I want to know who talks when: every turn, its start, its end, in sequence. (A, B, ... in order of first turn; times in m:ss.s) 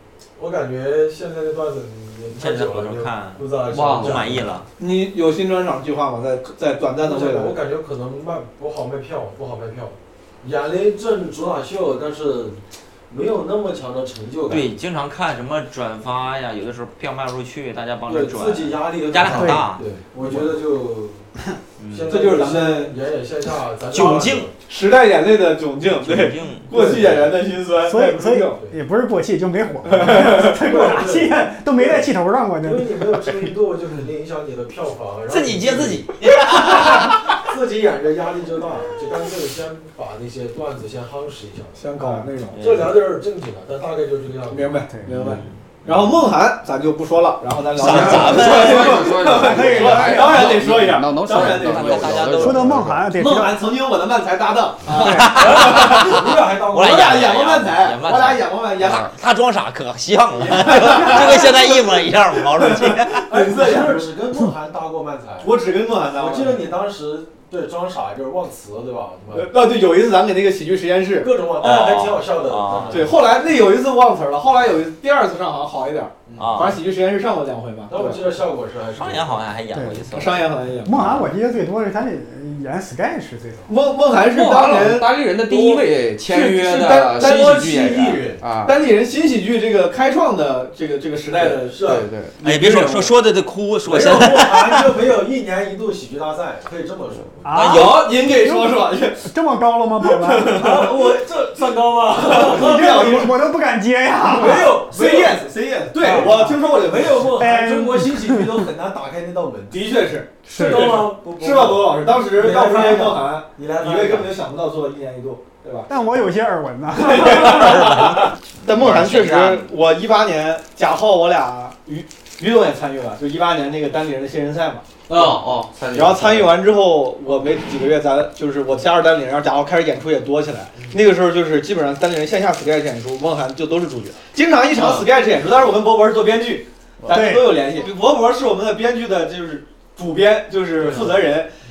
0:00.4-0:04.6 A
0:02.3-0:04.7 B
0:03.7-0:04.3 C
0:04.8-0:07.6 D
0:07.0-0:12.6 A
0:13.1-0:14.7 A
0:14.5-0:19.8 B
0:18.1-0:21.3 A
0:19.3-0:19.7 E
0:21.8-0:22.1 B
0:21.9-0:24.6 A
0:22.1-0:23.0 D
0:23.9-0:24.5 B
0:24.7-0:28.6 D
0:26.0-0:26.7 B
0:26.7-0:27.4 A
0:27.8-0:33.5 E
0:29.8-0:30.6 D
0:30.4-0:32.1 A
0:32.6-0:41.8 A
0:35.3-0:37.1 B
0:41.8-0:42.6 D
0:42.0-0:42.2 E
0:42.5-0:42.9 B
0:42.6-0:45.4 A
0:44.5-0:52.2 D
0:44.9-0:45.2 E
0:47.8-0:49.1 B
0:47.8-0:53.2 C
0:49.3-0:50.5 E
0:51.3-0:52.8 B
0:52.4-0:53.6 E
0:53.1-0:59.1 D
0:54.9-1:03.3 B
0:55.0-0:55.4 E
0:55.2-0:57.4 A
0:58.9-0:59.1 C
1:00.6-1:01.8 D
1:02.5-1:04.1 D
1:03.3-1:05.5 A
1:05.4-1:06.8 D
1:06.1-1:09.5 A
1:09.3-1:11.3 D
1:11.2-1:13.2 A
1:11.6-1:13.1 B
1:12.9-1:18.2 D
1:16.3-1:16.7 A
1:16.4-1:16.8 B
1:17.9-1:19.5 A
1:19.0-1:20.5 B
1:19.7-1:20.0 E
1:20.1-1:21.0 D
1:20.8-1:23.7 E
1:23.7-1:25.1 D
1:24.3-1:28.8 C
1:25.4-1:28.4 A
1:26.4-1:26.9 D
1:28.6-1:31.8 D
1:31.4-1:32.1 A
1:31.8-1:32.9 C
1:32.4-1:34.7 B
1:32.4-1:33.1 D
1:33.8-1:37.7 A
1:37.4-1:40.7 E
1:37.5-1:38.1 B
1:37.6-1:39.3 D
1:40.0-1:41.0 D
1:40.5-1:43.3 A
1:42.2-1:43.4 D
1:42.4-1:44.8 E
1:44.2-1:49.8 A
1:44.4-1:47.4 D
1:46.0-1:46.6 E
1:47.4-1:48.7 E
1:49.7-1:55.9 D
1:50.5-1:54.4 A
1:50.5-1:51.2 E
1:55.9-1:57.9 E
1:57.0-2:05.4 D
1:57.2-1:59.7 B
2:05.1-2:06.6 C
2:05.9-2:21.5 D
2:14.8-2:15.0 C
2:17.0-2:17.4 C
2:17.1-2:17.6 E